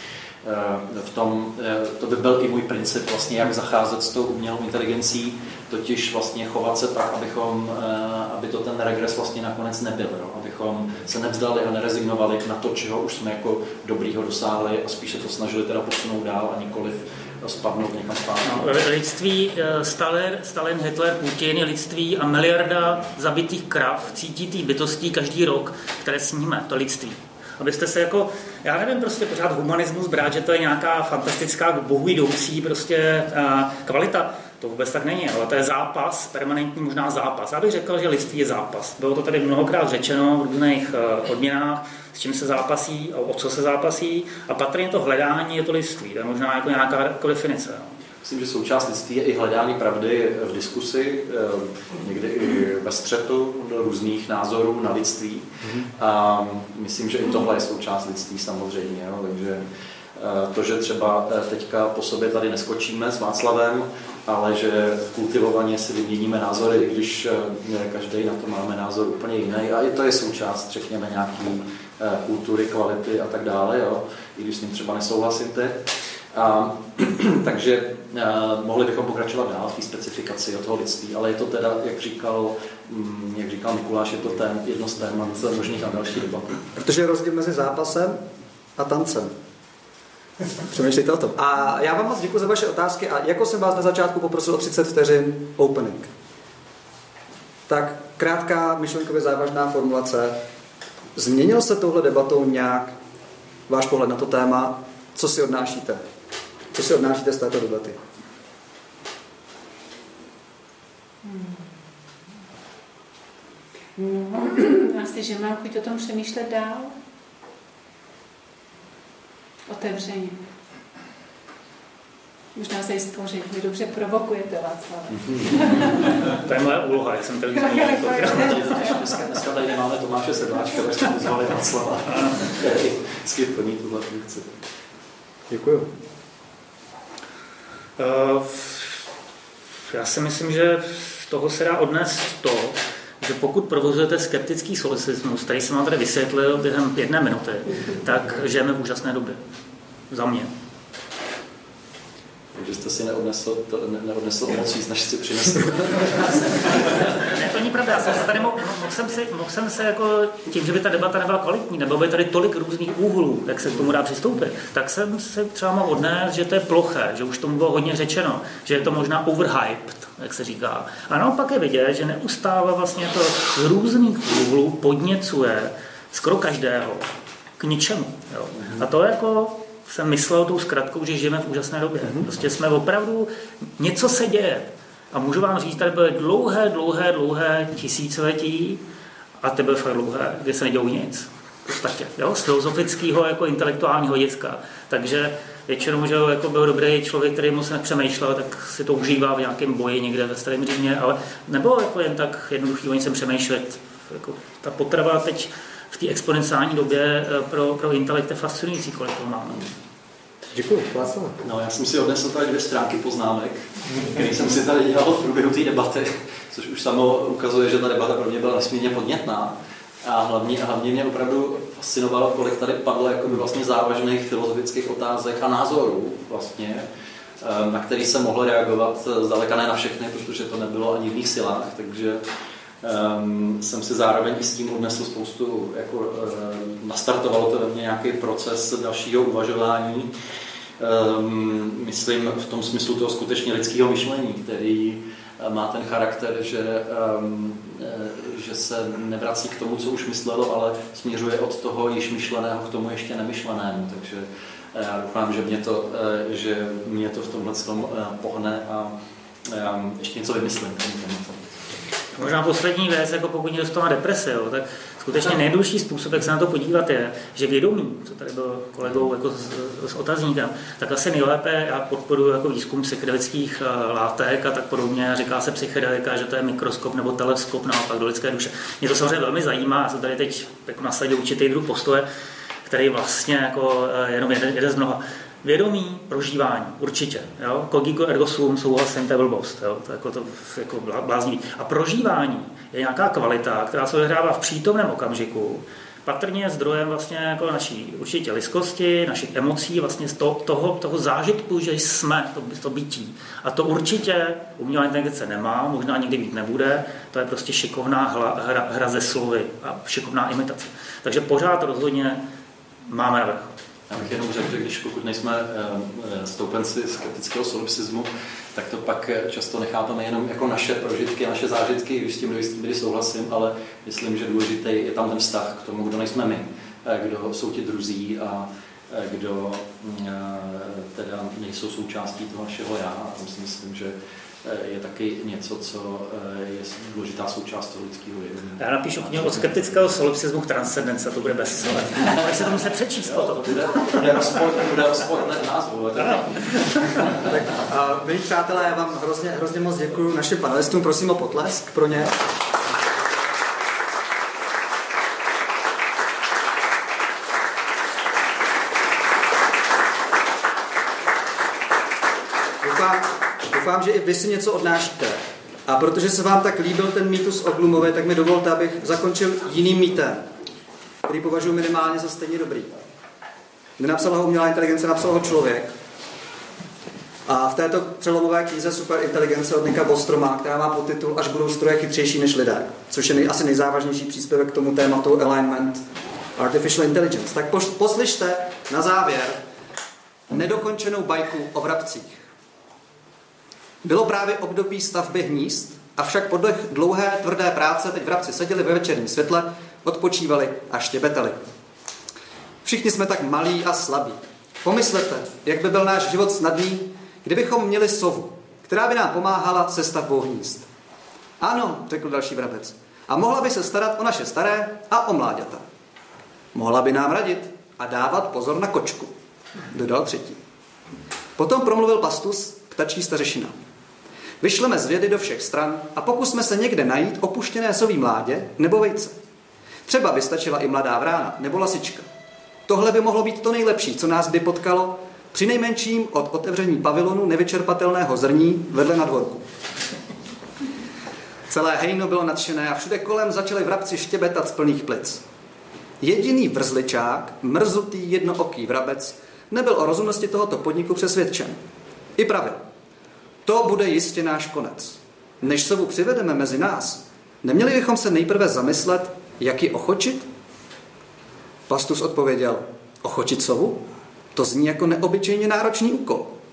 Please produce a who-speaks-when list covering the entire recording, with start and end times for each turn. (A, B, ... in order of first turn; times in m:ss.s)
0:00.4-0:18.7 A
0:18.4-0:47.9 B
0:48.2-0:59.6 A
1:00.2-1:26.6 A
1:26.8-1:28.2 C
1:28.8-1:29.3 C
1:30.6-1:36.1 C
1:37.7-1:40.4 C
1:41.1-1:43.0 C
1:43.7-1:46.0 C
1:46.7-1:48.0 C
1:51.2-1:51.6 D
1:54.0-1:56.9 D
1:59.7-2:00.4 D
2:02.5-2:06.3 D
2:06.3-2:08.9 B
2:07.5-2:09.1 D
2:08.2-2:14.5 A
2:15.5-2:15.9 C
2:18.0-2:19.0 B
2:19.9-2:29.4 B
2:30.1-2:30.5 B
2:32.5-2:37.3 A
2:37.2-2:57.1 B
2:57.6-3:08.8 B
3:02.0-3:02.3 C
3:09.4-3:29.7 B
3:30.5-3:31.4 C
3:31.4-3:46.8 A
3:47.4-3:52.2 A
3:52.8-4:00.1 A
4:00.8-4:18.9 A
4:19.4-4:21.5 A
4:22.2-4:42.0 B
4:42.6-5:12.2 B
5:12.8-5:13.5 B
5:13.9-5:39.7 A
5:38.6-5:44.3 B
5:42.2-5:42.5 A
5:43.0-5:47.3 A
5:46.1-5:47.0 B
5:47.3-5:52.2 C
6:02.6-6:10.3 C
6:11.0-6:12.8 C
6:13.8-6:15.7 C
6:17.2-6:25.8 C
6:26.4-6:29.4 C
6:30.3-6:32.2 C
6:33.8-6:41.4 C
6:42.6-6:50.7 C
6:51.4-6:55.6 C
6:56.5-6:59.1 C
6:59.7-7:00.4 C
7:01.4-7:03.6 C
7:04.4-7:09.2 C
7:09.8-7:12.1 C
7:12.6-7:19.4 C
7:21.5-7:25.2 C
7:26.0-7:31.6 C
7:32.2-7:32.6 C
7:33.4-7:40.3 C
7:41.7-7:46.3 C